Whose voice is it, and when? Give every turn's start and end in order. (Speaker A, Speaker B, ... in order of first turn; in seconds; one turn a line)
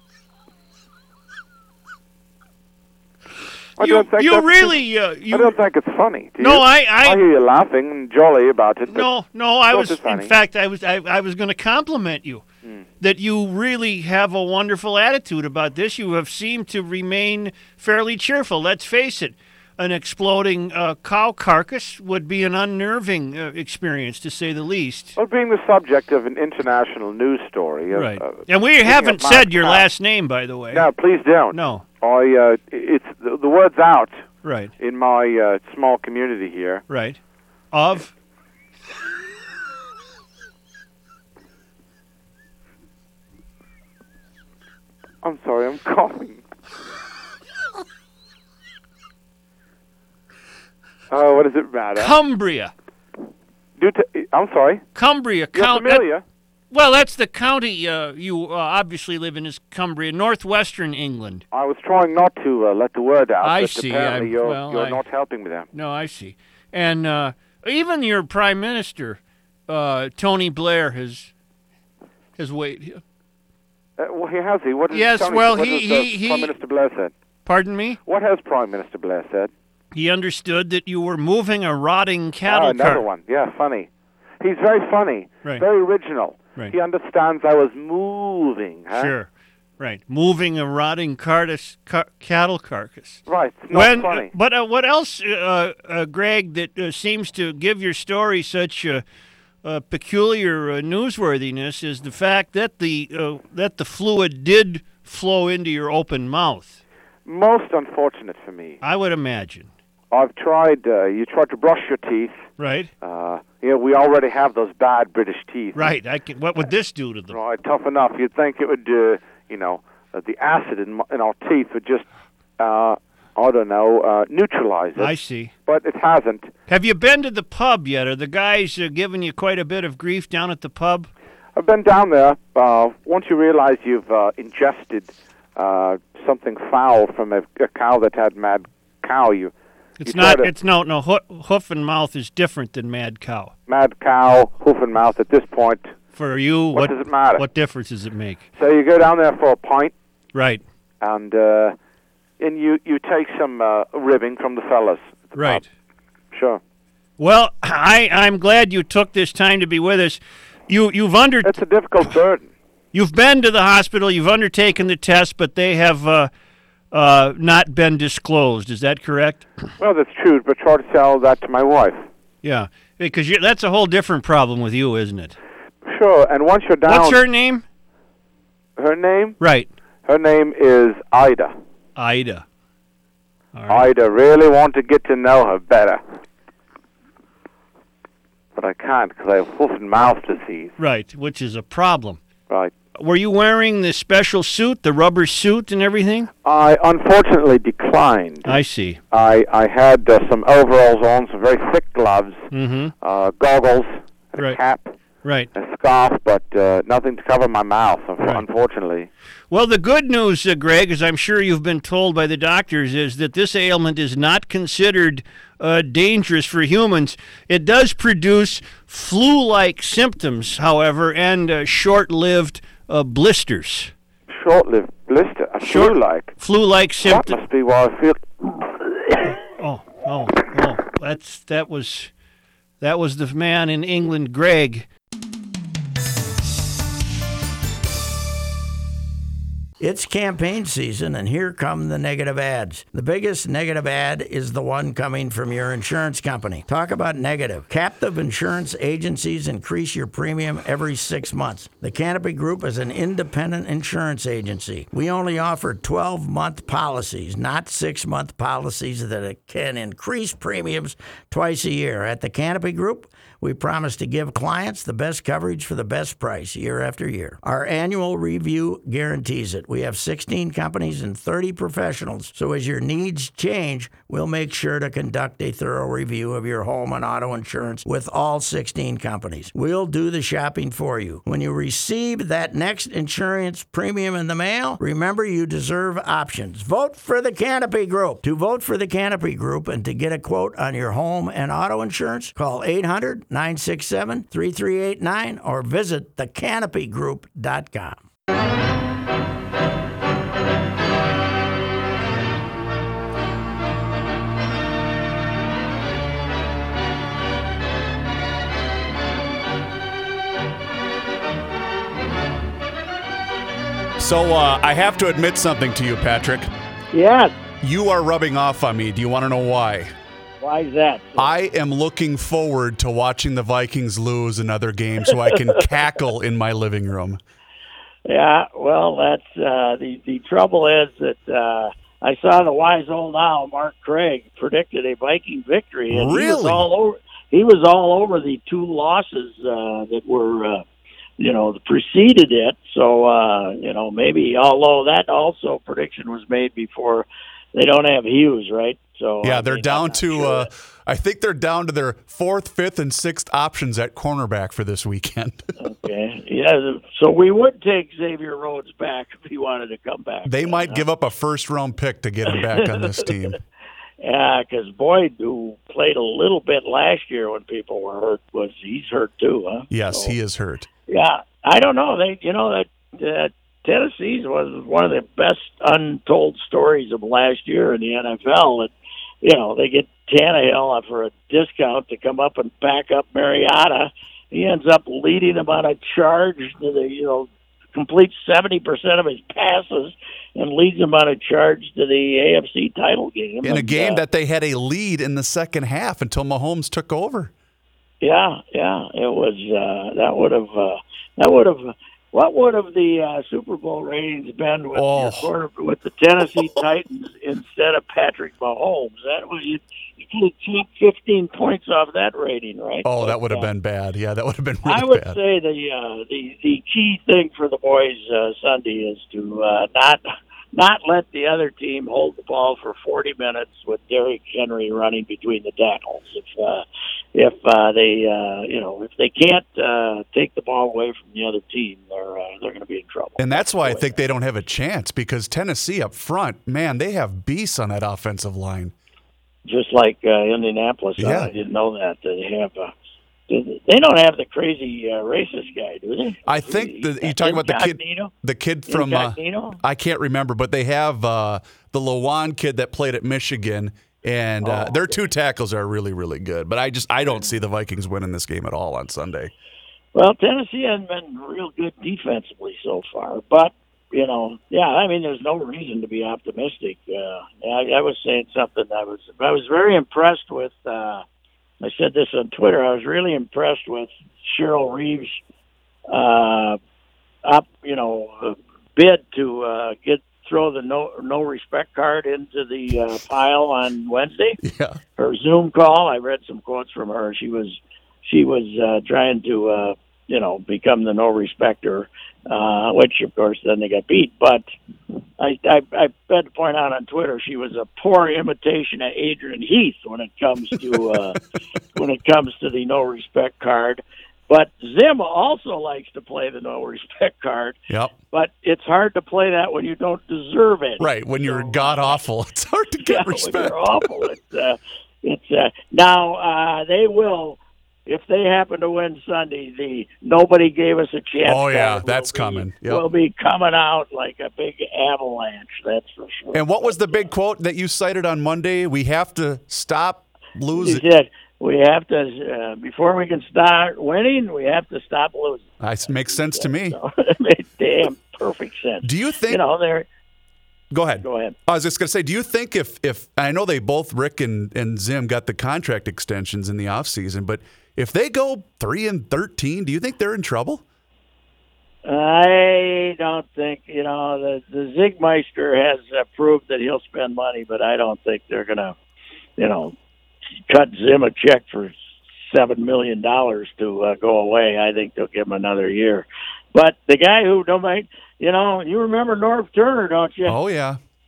Speaker A: 3.8-4.8
Speaker B: 3.8-5.6
Speaker A: 5.3-9.1
Speaker B: 6.4-7.2
Speaker B: 8.9-12.4
Speaker A: 9.7-10.3
Speaker B: 13.0-25.1
Speaker A: 25.2-29.8
Speaker B: 27.9-30.9
Speaker A: 30.7-34.2
Speaker B: 31.5-31.8
Speaker B: 34.4-34.7
Speaker A: 34.8-36.8
Speaker B: 36.9-37.2
Speaker B: 37.7-38.1
Speaker A: 45.2-46.4
Speaker A: 51.1-52.1
Speaker B: 52.0-52.7
Speaker A: 53.8-54.8
Speaker B: 54.9-56.0
Speaker A: 55.5-56.2
Speaker B: 56.7-61.4
Speaker A: 61.5-65.7
Speaker B: 63.4-65.0
Speaker B: 65.7-71.3
Speaker B: 72.4-73.0
Speaker A: 74.0-77.1
Speaker B: 74.9-76.5
Speaker B: 77.5-78.0
Speaker A: 78.0-79.5
Speaker B: 79.9-83.0
Speaker A: 82.5-83.9
Speaker A: 84.4-89.1
Speaker B: 88.9-89.3
Speaker B: 89.8-99.0
Speaker A: 93.3-94.3
Speaker B: 99.6-106.8
Speaker A: 107.2-108.8
Speaker B: 108.8-109.7
Speaker A: 110.1-112.4
Speaker B: 112.6-112.9
Speaker A: 113.0-115.9
Speaker B: 115.7-117.4
Speaker A: 117.3-122.0
Speaker A: 122.6-125.1
Speaker B: 125.0-125.5
Speaker A: 125.7-126.5
Speaker B: 126.7-131.1
Speaker A: 131.6-139.5
Speaker B: 140.0-143.5
Speaker A: 140.0-140.5
Speaker A: 143.7-145.9
Speaker B: 146.1-148.4
Speaker A: 146.7-147.4
Speaker A: 148.6-149.9
Speaker B: 150.3-150.6
Speaker A: 151.0-151.7
Speaker A: 152.4-155.6
Speaker B: 155.3-155.6
Speaker A: 156.3-156.6
Speaker B: 157.2-161.6
Speaker A: 161.4-162.5
Speaker B: 162.9-166.3
Speaker B: 166.9-169.5
Speaker A: 169.8-172.1
Speaker B: 172.4-175.4
Speaker A: 175.8-177.2
Speaker B: 176.8-177.6
Speaker A: 178.8-179.4
Speaker B: 179.4-179.7
Speaker A: 180.1-181.5
Speaker B: 182.0-182.4
Speaker B: 183.5-183.9
Speaker A: 183.7-186.0
Speaker A: 188.5-190.7
Speaker B: 190.8-192.2
Speaker B: 192.9-196.3
Speaker A: 196.4-198.6
Speaker B: 198.4-199.0
Speaker A: 199.1-202.5
Speaker B: 202.5-202.9
Speaker A: 203.0-204.9
Speaker B: 205.2-205.5
Speaker A: 205.5-209.1
Speaker B: 209.5-223.9
Speaker A: 224.3-226.3
Speaker B: 225.6-227.4
Speaker A: 227.0-228.2
Speaker B: 229.3-232.1
Speaker B: 232.8-234.9
Speaker C: 239.8-298.0
Speaker D: 314.0-316.5
Speaker E: 316.9-317.3
Speaker D: 317.6-319.9
Speaker E: 320.4-321.3
Speaker D: 321.2-327.2
Speaker E: 325.1-325.6
Speaker E: 328.1-340.6
Speaker D: 335.9-336.7
Speaker E: 341.2-350.5
Speaker D: 349.2-355.5
Speaker E: 355.6-360.8
Speaker D: 360.2-363.4
Speaker E: 362.3-363.4
Speaker E: 364.0-370.1
Speaker D: 369.7-370.7
Speaker E: 370.9-394.0
Speaker D: 393.4-397.3
Speaker E: 398.0-413.5
Speaker D: 404.7-405.3
Speaker D: 412.8-415.2
Speaker E: 414.6-426.6
Speaker E: 427.1-434.0
Speaker D: 433.2-438.7
Speaker E: 439.4-442.7
Speaker D: 441.0-441.3
Speaker E: 443.3-448.1
Speaker D: 446.2-459.3
Speaker E: 448.7-449.6
Speaker E: 454.4-455.0
Speaker E: 457.1-457.3
Speaker E: 459.9-471.0
Speaker E: 471.6-475.2
Speaker E: 475.9-476.6
Speaker E: 477.2-484.4
Speaker D: 484.4-484.8
Speaker E: 484.9-494.4
Speaker E: 495.2-501.2
Speaker E: 501.7-507.6
Speaker D: 507.7-507.9
Speaker E: 508.1-512.0
Speaker D: 510.8-513.9
Speaker E: 512.8-527.1
Speaker D: 521.2-522.9
Speaker D: 526.3-530.8
Speaker E: 530.5-539.9
Speaker D: 535.6-536.8
Speaker D: 538.8-539.4
Speaker D: 540.7-550.6
Speaker E: 541.0-541.4
Speaker E: 551.8-558.8
Speaker E: 559.4-559.7
Speaker E: 560.5-570.4
Speaker D: 570.2-570.8